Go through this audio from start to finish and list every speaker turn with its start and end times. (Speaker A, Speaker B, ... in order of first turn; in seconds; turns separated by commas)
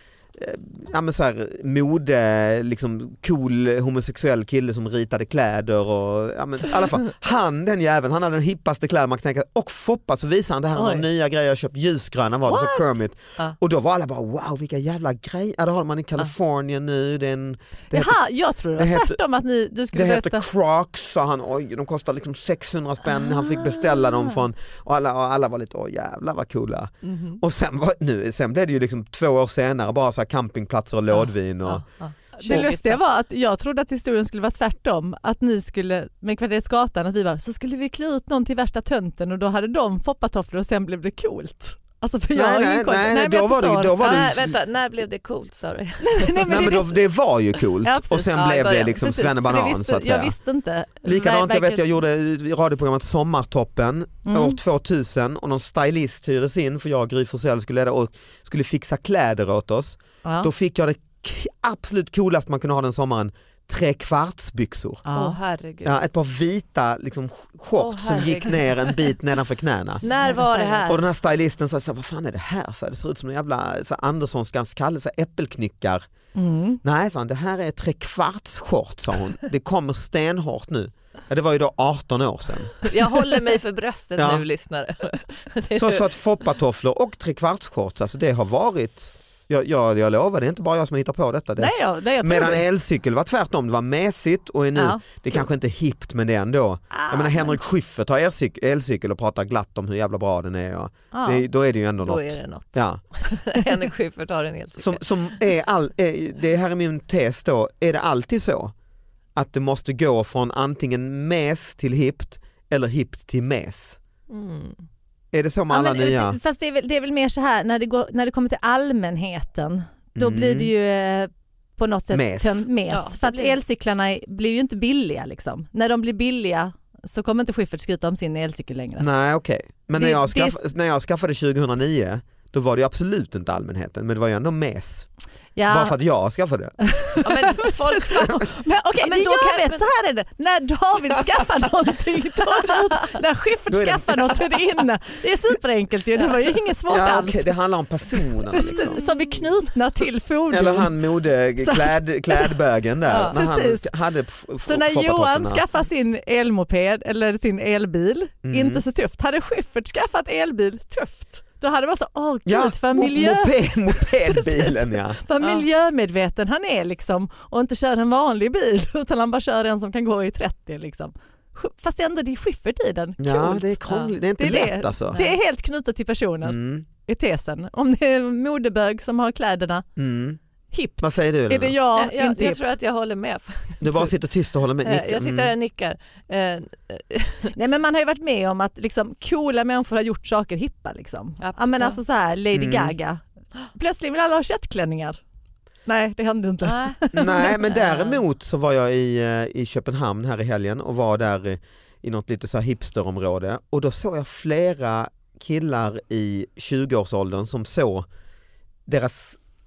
Speaker A: 0.3-18.2, Speaker B: 10.7-11.0, Speaker B: 12.5-12.9, Speaker B: 17.9-20.4, Speaker A: 18.7-19.2, Speaker A: 19.9-31.8, Speaker B: 23.3-24.3, Speaker C: 27.0-27.4, Speaker C: 31.6-33.0, Speaker B: 32.4-44.3, Speaker A: 42.3-44.5, Speaker C: 44.0-46.7, Speaker B: 46.0-47.0, Speaker A: 46.5-50.3, Speaker B: 47.8-48.4, Speaker C: 48.3-49.0, Speaker B: 48.9-51.8, Speaker A: 51.0-65.0, Speaker B: 54.2-54.6, Speaker B: 60.2-60.5, Speaker B: 65.0-65.4, Speaker C: 65.1-66.0, Speaker A: 65.8-70.0, Speaker C: 67.8-69.1, Speaker C: 70.0-71.0, Speaker B: 70.0-70.9, Speaker A: 70.9-76.0, Speaker B: 76.3-76.8, Speaker A: 76.8-82.9, Speaker C: 82.8-86.0, Speaker A: 84.2-84.4, Speaker A: 85.7-103.0, Speaker B: 91.6-92.6, Speaker B: 94.8-95.0, Speaker B: 96.9-97.6, Speaker B: 101.1-101.4, Speaker C: 102.0-105.0, Speaker A: 104.8-108.7, Speaker A: 109.3-114.0, Speaker C: 114.3-114.8, Speaker A: 115.3-116.4, Speaker B: 115.7-129.1, Speaker A: 120.2-120.7, Speaker A: 122.1-122.6, Speaker C: 122.9-123.6, Speaker A: 129.0-135.1, Speaker B: 129.9-130.6, Speaker B: 135.6-135.9, Speaker A: 135.7-136.8, Speaker B: 136.8-147.5, Speaker C: 137.2-139.8, Speaker A: 143.7-144.6, Speaker A: 146.9-149.0, Speaker B: 148.5-150.9, Speaker C: 148.7-149.4, Speaker A: 150.5-155.6, Speaker B: 151.6-152.5, Speaker C: 153.1-153.3, Speaker B: 153.2-153.9, Speaker B: 154.6-173.8, Speaker A: 158.4-158.8, Speaker A: 162.4-165.2, Speaker A: 173.2-175.2, Speaker C: 173.9-174.1, Speaker B: 174.4-179.8, Speaker A: 176.4-176.8, Speaker A: 180.0-180.4, Speaker B: 180.7-182.7, Speaker A: 181.0-181.8, Speaker C: 181.9-184.1, Speaker A: 183.8-185.5, Speaker C: 184.8-187.5, Speaker B: 187.5-193.2, Speaker C: 191.4-192.0, Speaker A: 192.5-192.9, Speaker B: 193.7-195.2, Speaker B: 195.8-197.6, Speaker C: 196.6-198.2, Speaker A: 197.1-208.1, Speaker A: 208.9-209.4